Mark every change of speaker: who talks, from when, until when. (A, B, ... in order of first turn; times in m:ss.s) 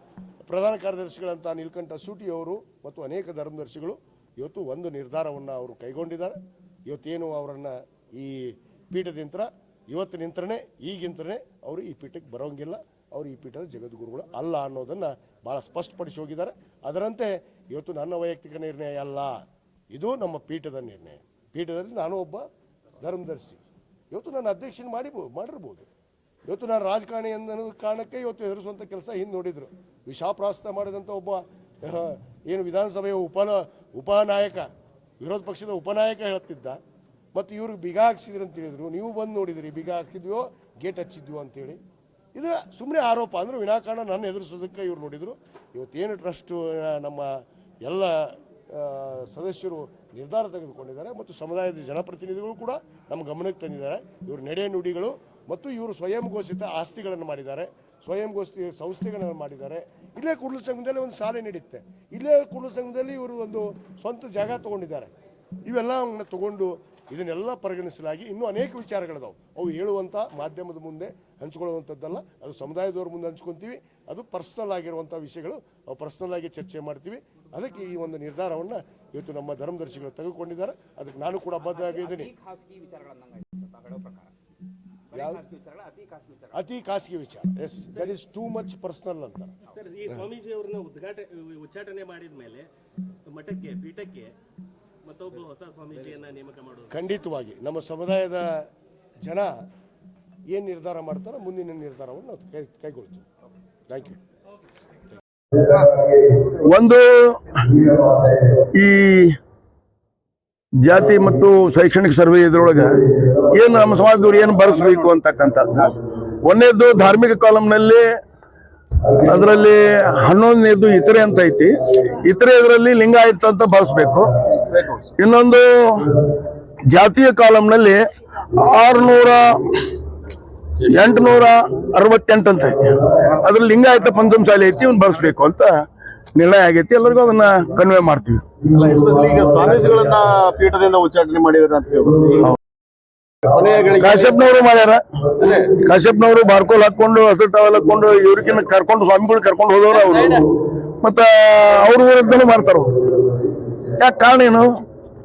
0:00.5-0:19.4 A
0:19.9-0:22.5 A
0:23.0-0:25.9 A
0:26.5-0:34.7 A
0:35.2-0:36.8 A
0:37.3-0:41.8 A
0:42.4-1:05.1 A
1:05.7-1:22.3 A
1:21.7-1:24.3 B
1:25.1-1:26.7 B
1:25.1-1:25.4 A
1:26.5-1:29.6 A
1:29.7-1:32.7 C
1:33.3-1:34.3 C
1:35.0-1:36.9 C
1:36.9-1:38.6 A
1:39.2-1:39.5 A
1:40.5-1:43.2 A
1:43.9-1:44.2 A
1:46.5-1:47.9 D
1:48.5-1:49.4 D
1:50.8-1:58.1 D
1:59.1-2:04.3 D
2:04.5-2:05.1 E
2:05.2-2:06.2 D
2:06.9-2:09.9 D
2:10.8-2:15.7 D
2:16.4-2:18.4 D
2:18.6-2:22.5 E
2:23.4-2:24.5 E
2:24.0-2:30.5 D
2:25.4-2:25.7 E
2:29.9-2:30.4 E
2:31.0-2:33.1 D
2:34.0-2:34.8 D